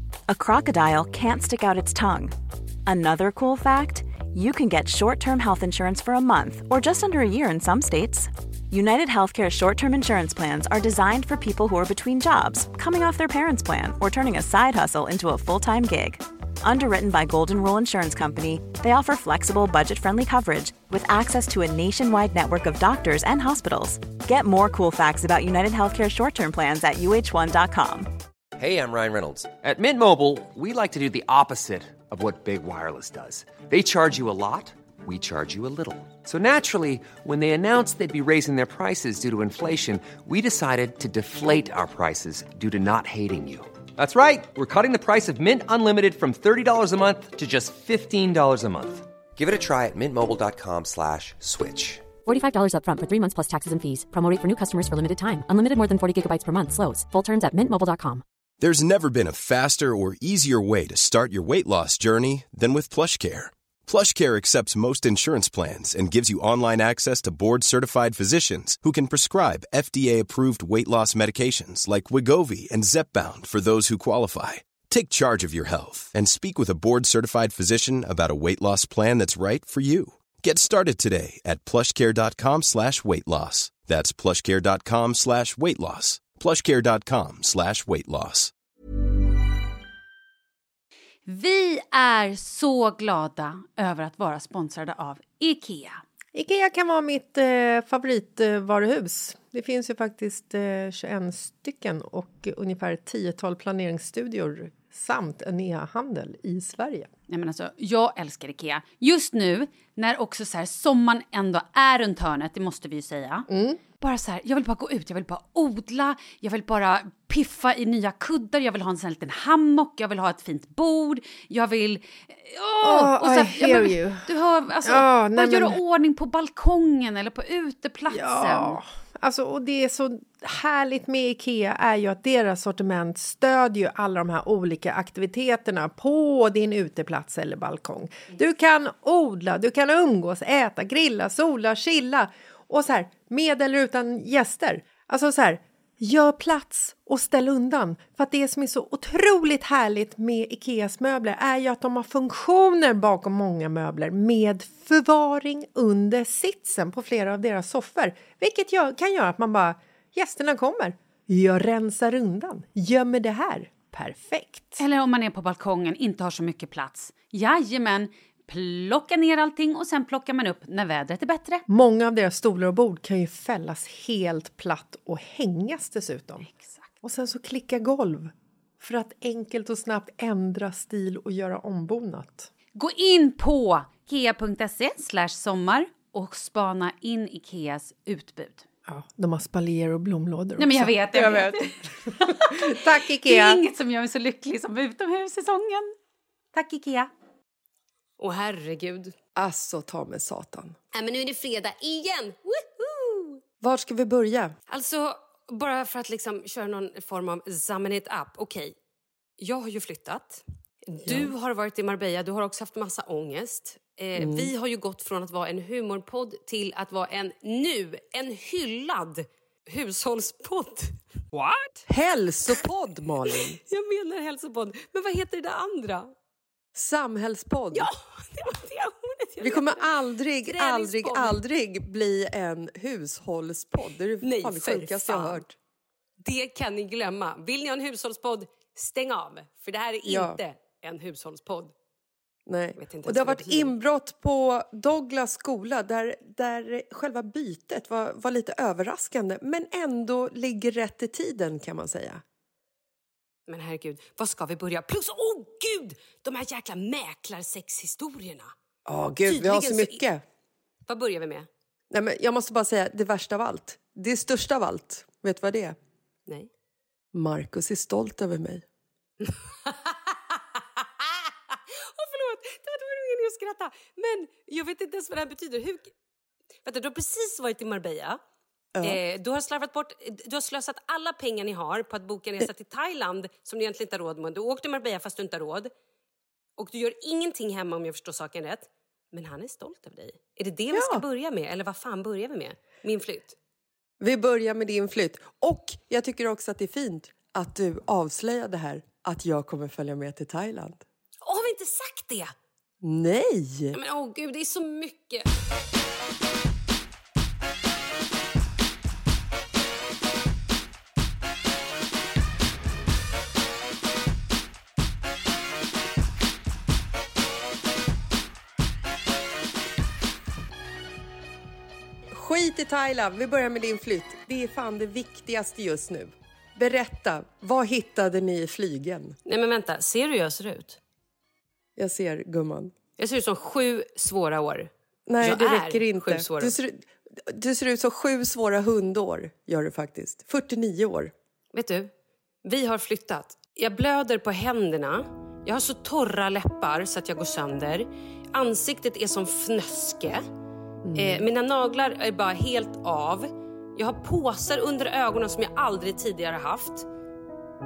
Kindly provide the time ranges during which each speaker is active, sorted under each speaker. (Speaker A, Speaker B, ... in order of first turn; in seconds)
Speaker A: 0.3-2.3, 2.9-28.1
Speaker B: 28.6-52.1
Speaker C: 52.2-58.2
Speaker D: 58.6-88.5
Speaker E: 91.2-96.0, 107.3-113.5, 114.0-128.8, 164.8-171.6, 176.4-176.9, 182.7-188.7, 190.6-195.9, 196.6-197.1
Speaker F: 96.3-107.1, 113.5-113.8, 122.8-124.2, 124.8-125.8, 128.1-164.8, 171.7-176.5, 177.0-182.5, 188.9-191.6, 192.3-193.6, 199.3-200.8, 203.6-204.5, 211.0-211.3, 214.2-214.5, 221.8-223.6, 226.7-227.9, 229.4-235.5, 240.1-240.4, 242.4-252.2, 258.8-260.2, 261.9-265.8, 267.1-268.6, 290.7-291.0, 294.0-300.8, 302.8-303.8, 322.1-329.1, 331.8-332.7, 335.1-341.1, 350.8-351.2
Speaker G: 198.2-199.1, 200.9-203.4, 204.7-208.7, 209.4-221.5, 223.6-226.1, 227.7-229.9, 230.4-231.4, 234.2-235.4, 236.2-241.7, 242.8-243.7, 253.5-258.5, 259.2-260.0, 260.9-261.5, 269.3-270.1, 271.5-275.9, 276.6-278.2, 278.8-285.7, 286.6-293.4, 301.2-302.3, 303.7-305.3, 329.2-330.8, 333.0-334.7, 335.2-336.6, 341.5-341.9, 342.4-350.2, 350.9-356.9